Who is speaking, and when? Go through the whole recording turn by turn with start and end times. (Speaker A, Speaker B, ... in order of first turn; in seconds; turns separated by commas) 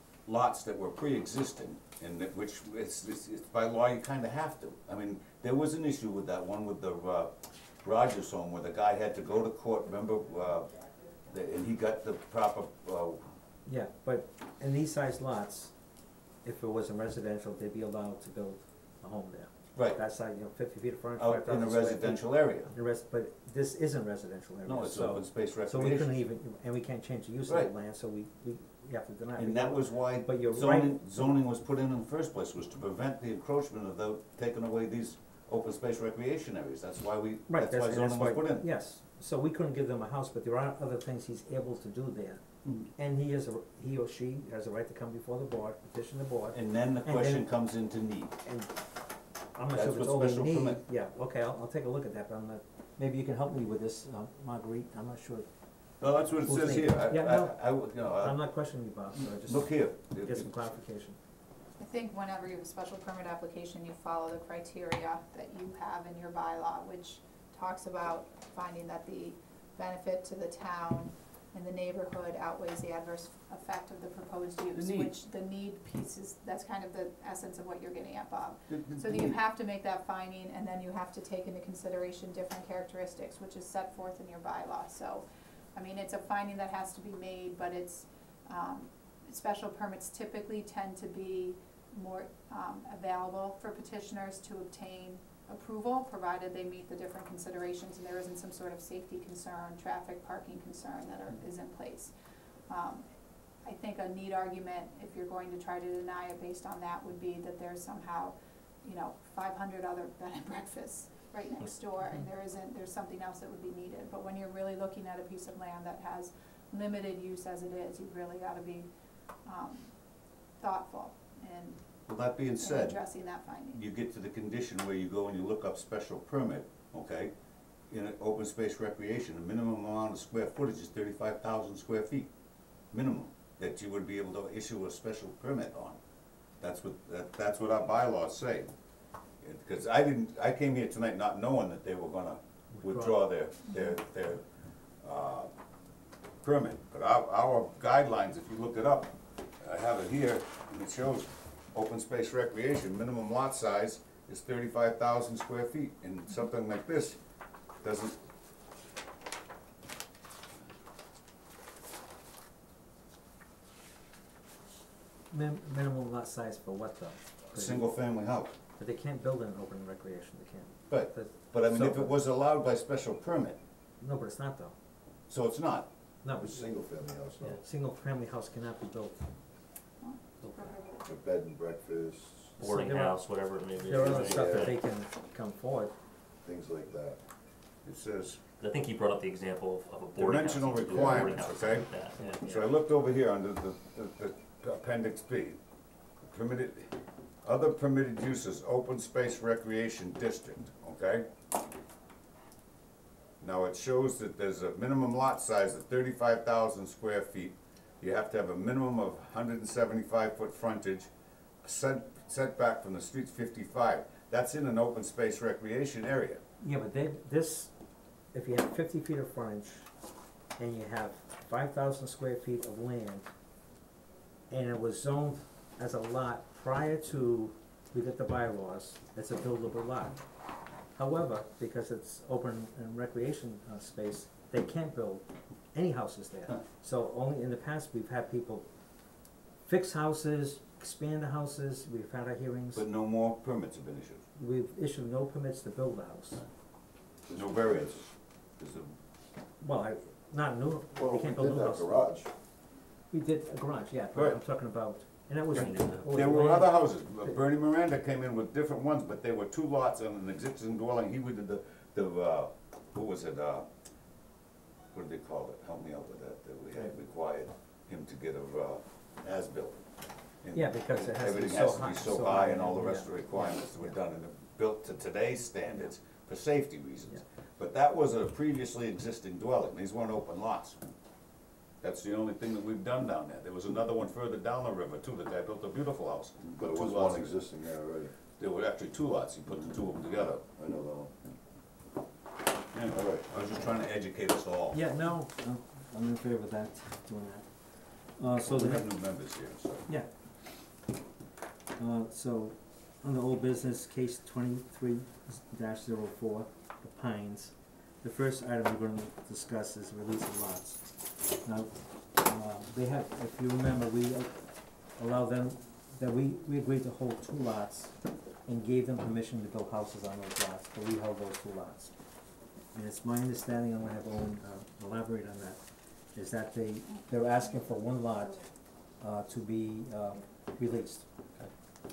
Speaker A: 0.2-13.3, Speaker B: 13.6-31.2, Speaker A: 19.7-20.0, Speaker A: 21.2-22.7, Speaker A: 24.6-26.2, Speaker A: 29.4-38.7, Speaker B: 37.5-47.5, Speaker A: 42.6-42.9, Speaker A: 46.5-48.4, Speaker B: 48.4-61.2, Speaker A: 49.7-50.8, Speaker A: 56.0-60.8, Speaker C: 61.8-122.1, Speaker A: 74.7-75.1, Speaker A: 78.7-79.3, Speaker A: 122.1-127.3, Speaker C: 122.6-123.8, Speaker A: 127.9-136.0, Speaker A: 136.5-145.6, Speaker B: 142.7-143.3, Speaker A: 146.4-158.2, Speaker B: 165.3-168.1, Speaker A: 167.5-168.5, Speaker B: 168.8-172.1, Speaker A: 170.9-173.6, Speaker B: 174.0-174.8, Speaker A: 175.3-175.9, Speaker B: 176.2-176.7, Speaker D: 176.3-177.6, Speaker B: 177.4-179.3, Speaker C: 180.0-181.0, Speaker E: 180.4-180.8, Speaker D: 181.0-182.6, Speaker E: 182.6-184.8, Speaker B: 182.6-185.9, Speaker D: 183.9-184.7, Speaker D: 186.4-187.2, Speaker A: 187.8-188.4, Speaker E: 188.6-192.6, Speaker A: 190.2-195.6, Speaker A: 196.2-201.3, Speaker A: 203.4-211.1, Speaker A: 211.6-216.4, Speaker B: 216.6-223.3, Speaker B: 224.5-242.8, Speaker A: 242.7-244.2, Speaker B: 244.4-246.4, Speaker D: 247.3-248.1, Speaker A: 247.3-249.0, Speaker B: 249.6-251.9, Speaker D: 250.9-252.4, Speaker B: 253.1-257.4, Speaker E: 255.5-256.4, Speaker A: 256.1-263.7, Speaker A: 264.9-280.9, Speaker B: 270.5-273.9, Speaker A: 281.8-287.6, Speaker D: 286.4-288.1, Speaker A: 288.3-290.4, Speaker D: 289.5-291.4, Speaker A: 292.7-294.8, Speaker D: 292.9-293.6, Speaker B: 294.7-299.1, Speaker A: 298.4-299.9, Speaker B: 301.8-331.1